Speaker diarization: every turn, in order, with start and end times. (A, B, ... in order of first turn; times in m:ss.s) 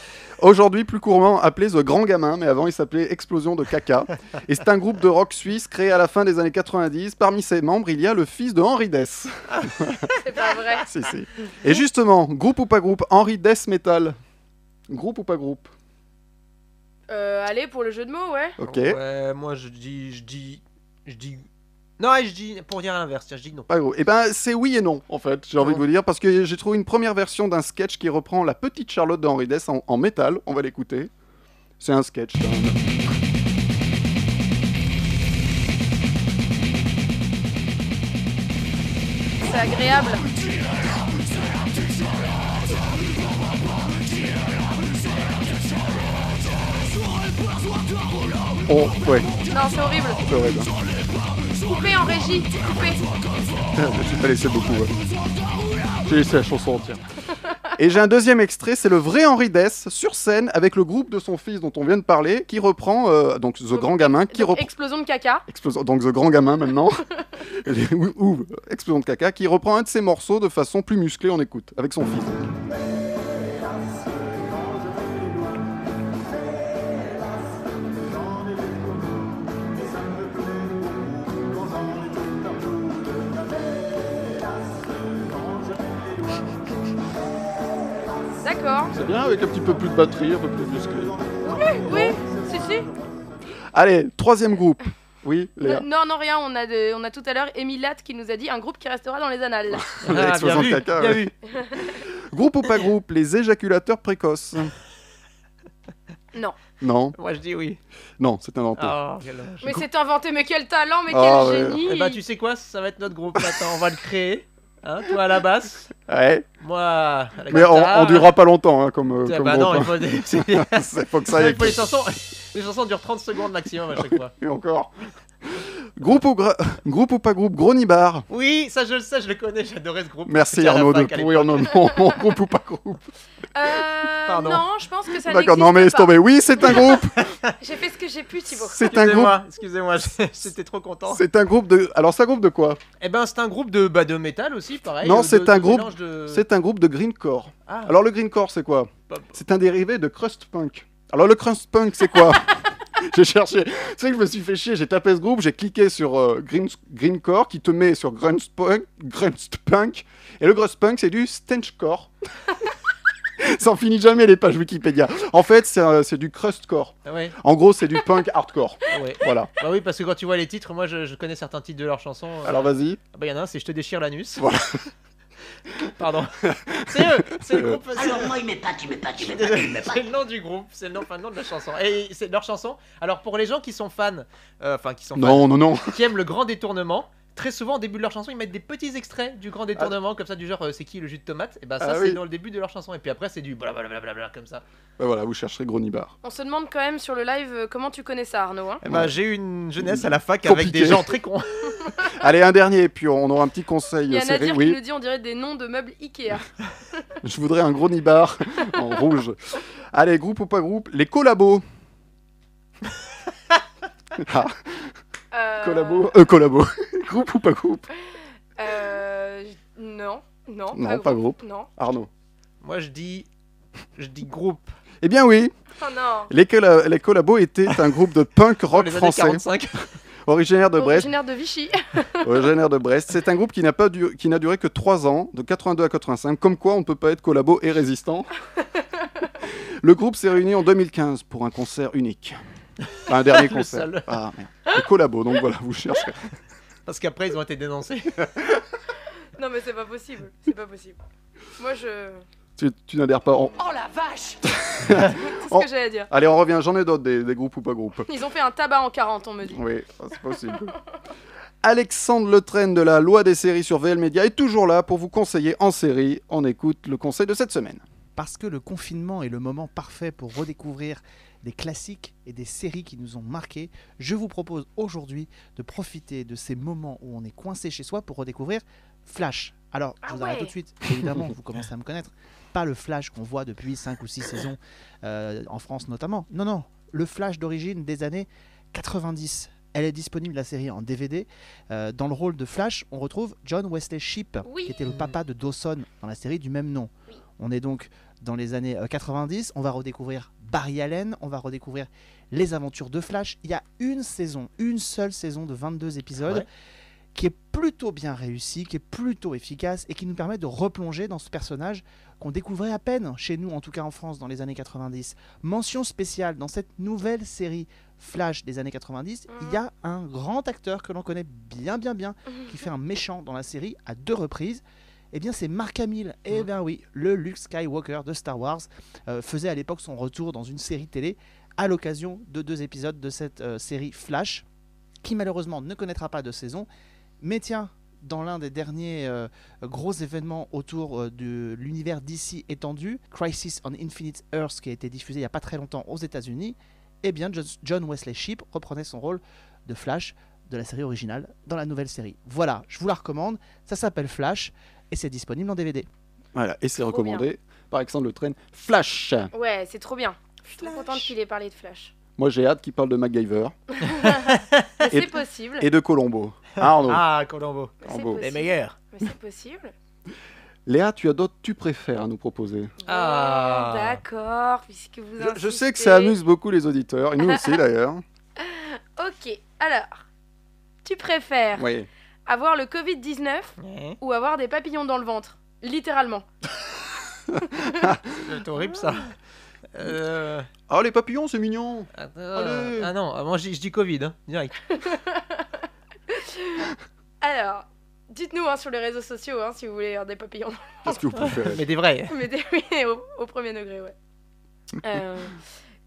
0:00.4-0:10.0 A
0:09.5-0:10.2 B
0:10.2-0:10.8 C
0:10.8-0:14.2 A
0:14.9-0:15.7 A
0:17.1-0:18.6 C
0:18.6-0:19.0 A
0:18.7-0:21.4 B
0:22.0-0:23.7 B
0:23.7-0:31.1 A
0:31.8-0:32.8 A
0:39.4-0:40.2 C
0:48.7-0:49.3 A
0:49.5-0:50.2 C
0:50.2-0:50.7 A
0:51.6-0:53.0 C
0:53.7-0:55.0 A
0:56.0-0:57.0 A
0:57.8-1:04.7 A
1:03.7-1:05.4 C
1:05.5-1:12.4 A
1:28.4-1:28.9 C
1:28.9-1:31.2 A
1:31.5-1:32.9 C
1:31.8-1:32.2 A
1:33.7-1:35.8 A
1:35.6-1:40.0 C
1:39.7-1:41.3 A
1:40.0-1:41.3 B
1:42.0-1:44.7 A
1:46.8-1:47.2 A
1:47.2-1:47.8 B
1:48.2-1:49.0 A
1:48.8-1:49.6 B
1:49.6-1:52.2 C
1:51.1-1:51.8 A
1:51.8-1:55.9 B
1:56.1-1:56.5 A
1:56.6-1:58.4 B
1:57.5-2:01.8 A
1:59.2-2:04.3 B
2:04.0-2:04.9 A
2:05.4-2:08.2 A
2:08.3-2:11.8 B
2:10.2-2:13.0 A
2:13.5-2:16.8 C
2:14.3-2:14.6 B
2:15.2-2:17.2 A
2:17.2-2:17.5 B
2:17.6-2:18.8 C
2:18.6-2:19.4 A
2:18.8-2:21.2 B
2:21.1-2:22.8 A
2:23.0-2:26.4 B
2:25.0-2:42.1 A
2:27.7-2:27.9 B
2:43.4-2:49.5 A
2:47.0-2:47.3 B
2:48.9-2:54.5 B
2:52.4-2:53.0 A
2:54.4-2:54.8 A
2:56.0-2:58.4 B
2:56.7-2:57.8 A
2:58.0-3:00.0 D
2:59.2-3:14.6 B
3:05.2-3:06.0 A
3:11.8-3:12.2 A
3:15.0-3:16.1 A
3:16.2-3:18.8 C
3:18.8-3:21.9 B
3:18.8-3:19.1 A
3:19.8-3:21.1 A
3:22.1-3:24.8 A
3:24.1-3:26.5 C
3:27.2-3:29.4 A
3:29.9-3:31.6 A
3:34.2-3:34.8 A
3:35.3-3:36.1 C
3:35.6-3:37.9 A
3:38.6-3:41.7 C
3:40.7-3:42.1 A
3:42.6-3:43.3 B
3:44.0-3:44.8 B
3:45.0-3:45.5 A
3:45.8-3:46.3 C
3:46.3-3:49.4 A
3:48.7-3:49.9 B
3:50.2-3:51.1 A
3:50.8-3:52.2 C
3:52.2-3:58.3 A
3:59.8-4:02.4 A
4:03.1-4:06.3 A
4:03.1-4:04.1 B
4:06.8-4:08.2 B
4:09.4-4:11.0 C
4:11.6-4:12.2 C
4:12.6-4:13.6 A
4:14.6-4:18.1 A
4:15.1-4:16.1 C
4:18.1-4:19.6 C
4:19.5-4:20.7 A
4:21.6-4:27.8 A
4:28.2-5:06.5 E
4:40.0-4:40.5 C
4:54.4-4:54.8 C
5:07.1-5:34.4 E
5:19.3-5:19.6 C
5:35.0-5:36.7 E
5:37.2-5:55.9 E
5:56.3-5:59.3 A
5:56.8-5:57.2 C
5:59.3-6:01.9 C
6:00.6-6:01.1 B
6:02.2-6:03.6 A
6:03.8-6:05.7 C
6:04.3-6:04.6 B
6:04.9-6:07.0 A
6:06.6-6:08.8 B
6:07.8-6:09.7 C
6:07.8-6:08.2 A
6:10.7-6:12.7 A
6:12.8-6:16.2 C
6:12.9-6:14.0 B
6:15.2-6:18.0 A
6:17.2-6:17.6 C
6:18.4-6:20.0 C
6:20.8-6:21.7 C
6:21.6-6:21.9 A
6:22.3-6:26.2 C
6:23.6-6:24.0 B
6:27.6-6:28.0 A
6:28.2-6:29.1 B
6:29.7-6:30.5 B
6:30.7-6:32.9 A
6:32.0-6:34.6 B
6:34.7-6:35.5 C
6:36.1-6:36.7 C
6:37.2-6:41.0 C
6:40.8-6:41.6 A
6:41.3-6:42.1 B
6:42.1-6:44.0 C
6:44.8-6:45.4 C